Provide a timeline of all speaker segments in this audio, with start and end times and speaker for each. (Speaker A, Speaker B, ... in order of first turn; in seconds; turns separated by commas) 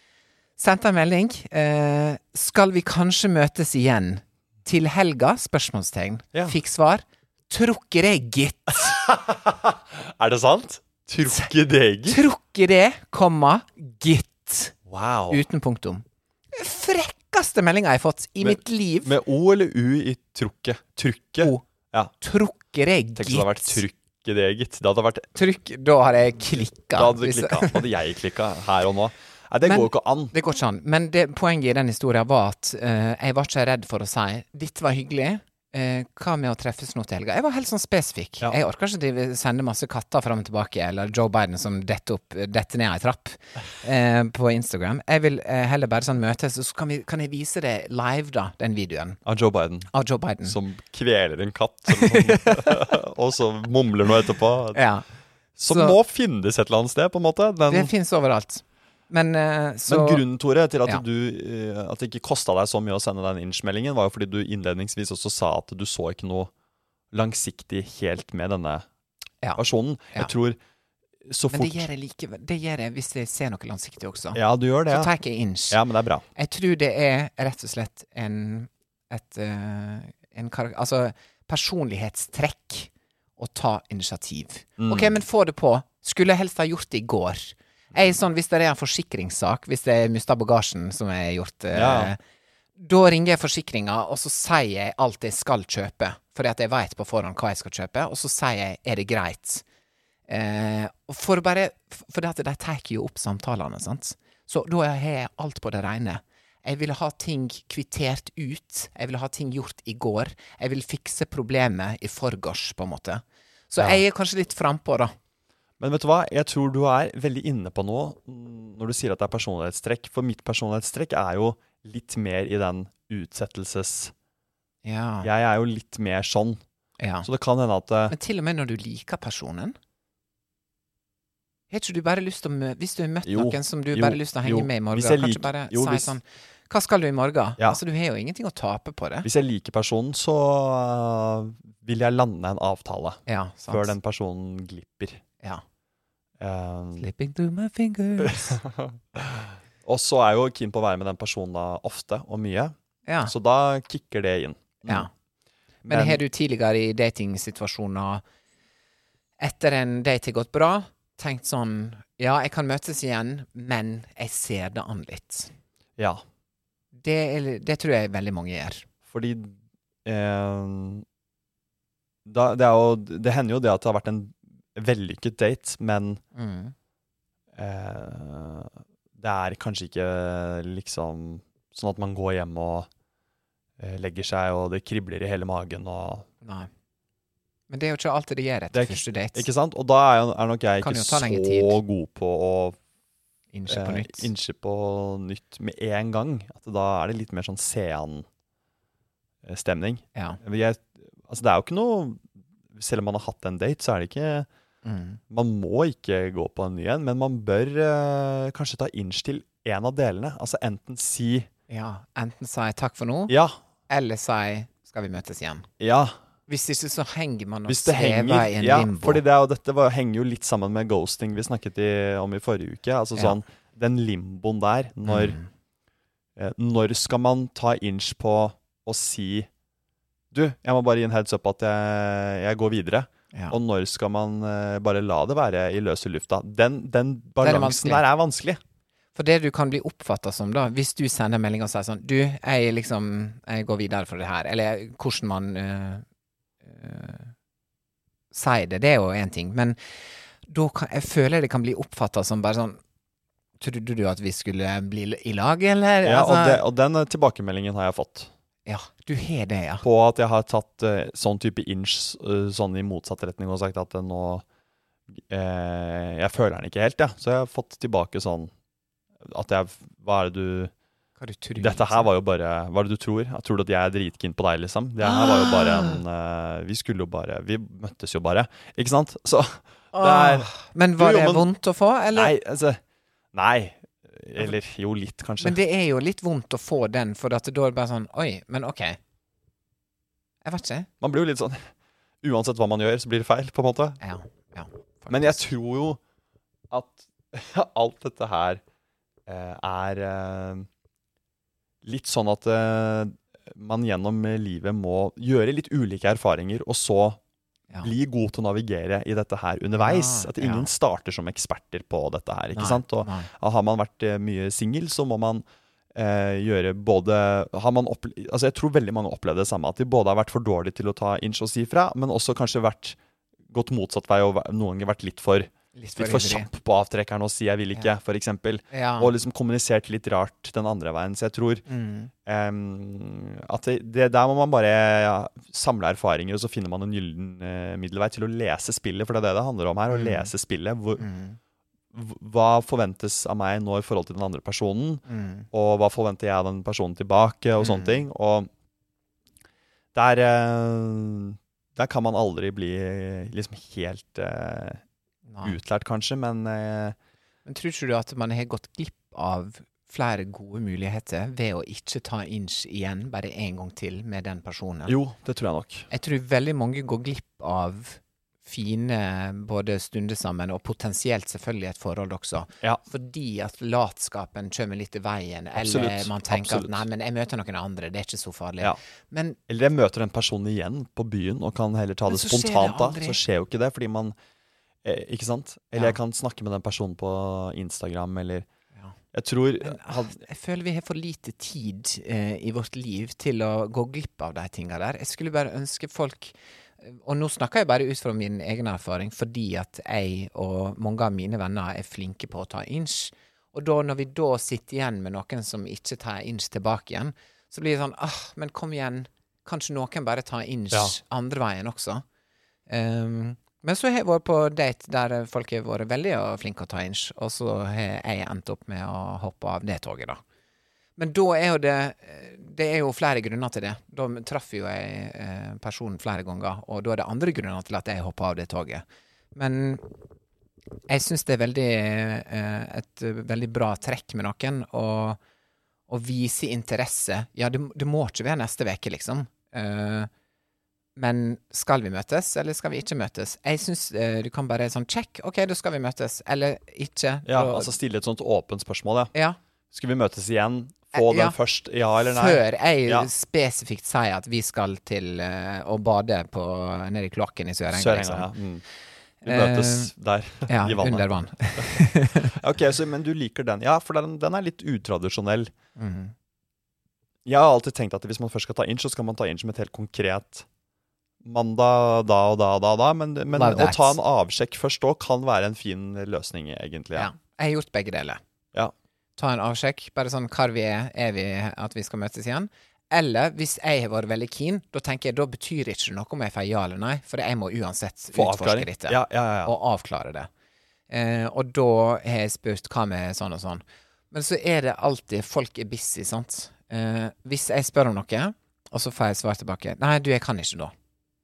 Speaker A: 0.6-9.0, Speaker B: 8.8-12.2, Speaker A: 12.1-14.8, Speaker B: 14.9-15.4, Speaker A: 15.3-19.1, Speaker B: 18.4-22.1, Speaker A: 21.4-21.6, Speaker A: 22.2-23.8, Speaker B: 23.1-25.3, Speaker A: 25.4-27.9, Speaker B: 26.9-30.3, Speaker A: 29.6-49.2, Speaker B: 49.2-49.9, Speaker A: 49.9-50.6, Speaker B: 50.4-54.8, Speaker A: 51.9-52.8, Speaker A: 54.7-55.0, Speaker B: 55.6-57.9, Speaker A: 55.7-56.0, Speaker A: 57.7-60.2, Speaker B: 59.9-66.5, Speaker B: 67.1-68.8, Speaker B: 69.5-70.6, Speaker B: 71.3-71.9, Speaker A: 71.5-75.8, Speaker B: 74.3-75.1, Speaker B: 75.7-76.2, Speaker A: 76.3-92.2, Speaker B: 84.8-85.1, Speaker B: 91.7-92.1, Speaker A: 92.8-99.6, Speaker A: 100.3-115.1, Speaker B: 115.8-124.1, Speaker A: 124.8-125.3, Speaker B: 125.2-126.6, Speaker A: 127.0-127.3, Speaker B: 127.2-128.2, Speaker A: 128.1-129.8, Speaker A: 131.7-139.3, Speaker B: 133.2-136.1, Speaker B: 139.2-145.2, Speaker A: 143.3-143.9, Speaker B: 146.4-147.1, Speaker A: 147.0-148.6, Speaker B: 148.2-155.1, Speaker A: 153.1-153.3, Speaker A: 154.8-155.1, Speaker A: 155.8-158.2, Speaker B: 155.9-156.2, Speaker A: 159.4-165.5, Speaker B: 166.0-166.2, Speaker A: 166.9-168.9, Speaker B: 169.1-171.0, Speaker B: 172.2-176.2, Speaker A: 176.3-176.7, Speaker B: 177.5-182.9, Speaker B: 183.8-186.3, Speaker A: 186.4-186.7, Speaker A: 187.7-189.5, Speaker B: 188.7-192.8, Speaker A: 190.8-191.8, Speaker A: 193.5-194.3, Speaker B: 193.7-198.2, Speaker B: 199.4-204.5, Speaker A: 200.1-200.4, Speaker A: 204.8-205.2, Speaker B: 205.3-211.5, Speaker A: 211.7-213.3, Speaker B: 213.3-213.6, Speaker A: 213.9-215.7, Speaker B: 215.8-216.1, Speaker A: 216.5-219.2, Speaker B: 217.7-225.4, Speaker A: 225.1-225.4, Speaker B: 226.4-229.5, Speaker B: 230.3-238.6, Speaker A: 237.4-238.0, Speaker A: 239.2-246.0, Speaker A: 246.6-247.3, Speaker A: 248.3-249.8, Speaker A: 250.4-252.8, Speaker A: 253.6-256.6, Speaker B: 256.0-258.3, Speaker A: 258.6-259.8, Speaker B: 259.8-264.4, Speaker B: 265.1-268.5, Speaker B: 269.2-270.7, Speaker A: 271.2-272.1, Speaker B: 271.6-281.5, Speaker A: 275.0-276.0, Speaker A: 279.9-282.3, Speaker B: 282.1-282.8, Speaker B: 283.3-285.6, Speaker A: 285.4-289.0, Speaker A: 290.4-290.9, Speaker B: 291.0-291.7, Speaker B: 292.2-294.0, Speaker A: 294.0-295.4, Speaker B: 295.1-296.0, Speaker B: 296.7-298.6, Speaker B: 299.3-300.7, Speaker B: 301.8-307.2, Speaker B: 307.8-315.4, Speaker A: 309.8-310.7, Speaker A: 312.5-313.3, Speaker B: 315.9-323.0, Speaker B: 323.5-331.6, Speaker A: 325.8-326.5, Speaker A: 328.7-329.1, Speaker A: 331.7-332.1, Speaker B: 332.2-341.1, Speaker A: 339.9-340.3, Speaker A: 341.0-341.4, Speaker B: 341.9-348.5, Speaker A: 345.1-345.5, Speaker A: 347.6-348.1, Speaker B: 349.9-354.8, Speaker A: 355.3-355.6, Speaker B: 355.4-356.9, Speaker A: 357.4-364.9, Speaker B: 364.9-365.9, Speaker A: 365.9-379.4, Speaker B: 375.6-376.8, Speaker B: 379.5-384.1, Speaker A: 382.1-383.2, Speaker B: 384.8-388.5, Speaker B: 389.1-390.2, Speaker A: 389.6-412.0, Speaker A: 412.7-420.2, Speaker A: 421.0-430.0, Speaker A: 430.9-435.2, Speaker A: 435.9-440.1, Speaker A: 440.9-447.7, Speaker B: 447.2-449.1, Speaker B: 449.7-453.1, Speaker A: 450.9-451.4, Speaker A: 452.0-458.3, Speaker B: 457.7-458.6, Speaker A: 459.2-459.9, Speaker B: 459.2-465.5, Speaker A: 460.5-462.4, Speaker A: 465.8-466.1, Speaker B: 467.2-470.4, Speaker B: 471.2-477.1, Speaker A: 473.3-474.0, Speaker A: 476.9-478.2, Speaker A: 479.2-490.3, Speaker B: 488.1-489.5, Speaker A: 490.9-500.7